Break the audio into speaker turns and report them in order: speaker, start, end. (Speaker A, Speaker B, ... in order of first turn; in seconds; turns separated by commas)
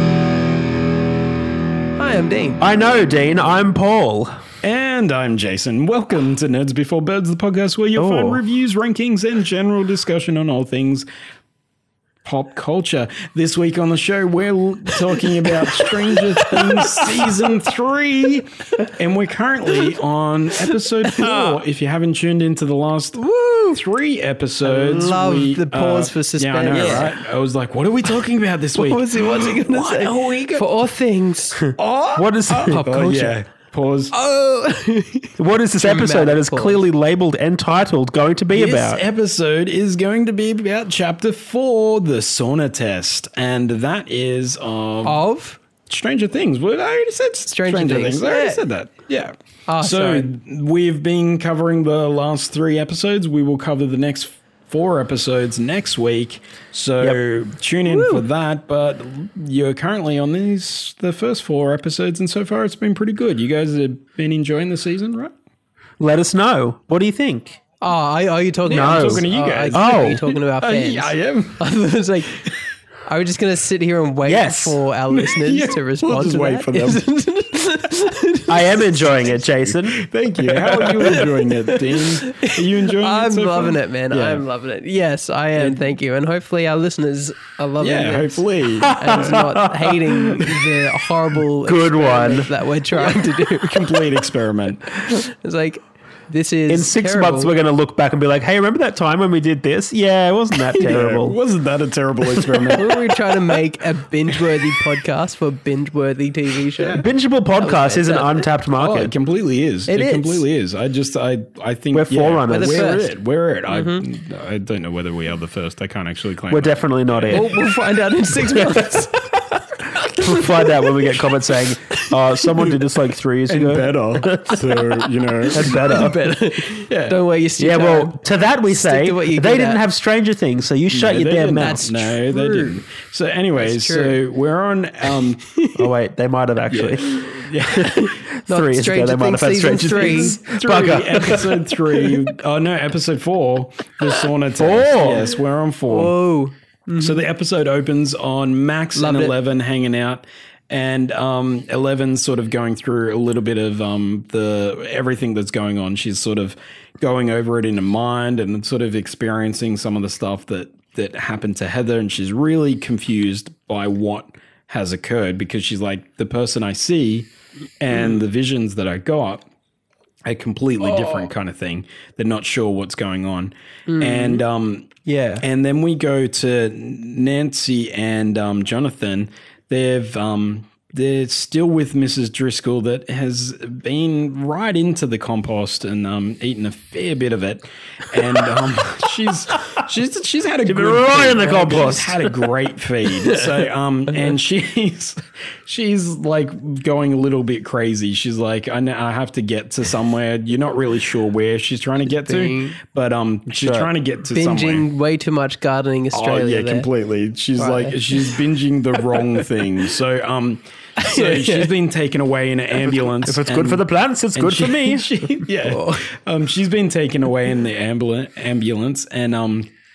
Speaker A: 2.0-2.6, Speaker B: 2.6-4.3, Speaker C: 4.6-11.1, Speaker B: 8.0-8.4, Speaker C: 12.2-30.7, Speaker A: 15.5-17.0, Speaker A: 20.6-21.6, Speaker A: 23.2-23.8, Speaker A: 24.6-27.1, Speaker A: 28.8-31.7, Speaker B: 31.6-32.8, Speaker C: 31.8-34.1, Speaker A: 32.6-33.4, Speaker A: 34.1-36.8, Speaker B: 35.4-39.0, Speaker C: 38.5-45.2, Speaker A: 45.0-45.6, Speaker C: 45.9-65.3, Speaker A: 47.5-48.6, Speaker A: 49.7-50.3, Speaker A: 57.9-58.2, Speaker B: 66.0-67.6, Speaker A: 67.8-72.5, Speaker C: 68.7-71.6, Speaker B: 68.7-70.2, Speaker A: 73.1-79.1, Speaker B: 74.2-74.8, Speaker C: 75.1-77.0, Speaker B: 78.5-80.0, Speaker C: 79.7-84.4, Speaker A: 80.7-94.2, Speaker C: 87.8-89.5, Speaker B: 88.9-90.6, Speaker B: 91.7-92.5, Speaker C: 93.0-95.1, Speaker A: 94.9-97.5, Speaker B: 96.7-101.4, Speaker C: 100.8-103.4, Speaker B: 102.3-102.7, Speaker A: 102.8-107.0, Speaker B: 106.9-109.1, Speaker A: 107.6-108.5, Speaker C: 108.8-117.5, Speaker A: 109.9-110.5, Speaker B: 111.9-113.0, Speaker A: 112.5-113.1, Speaker A: 113.7-114.0, Speaker B: 116.5-117.6, Speaker A: 117.3-122.4, Speaker B: 118.6-118.9, Speaker B: 120.2-126.5, Speaker C: 123.5-125.9, Speaker A: 125.5-129.8, Speaker C: 126.9-127.2, Speaker B: 127.6-131.9, Speaker C: 130.9-135.4, Speaker A: 131.6-132.8, Speaker A: 133.6-134.2, Speaker A: 135.1-135.8, Speaker B: 135.8-137.2, Speaker C: 136.7-138.0, Speaker A: 137.7-140.4, Speaker B: 138.0-141.7, Speaker C: 139.6-146.1, Speaker B: 144.6-145.3, Speaker A: 145.9-147.2, Speaker C: 147.0-167.3, Speaker A: 148.9-149.3, Speaker C: 167.8-169.4, Speaker C: 170.3-204.9, Speaker A: 173.9-174.4, Speaker B: 175.1-175.4, Speaker B: 190.7-192.4, Speaker A: 202.1-202.8, Speaker B: 203.5-203.9, Speaker A: 204.3-206.9, Speaker C: 206.1-219.7, Speaker A: 207.6-208.4, Speaker A: 209.1-209.4, Speaker A: 211.0-211.7, Speaker B: 213.2-215.2, Speaker A: 215.5-216.1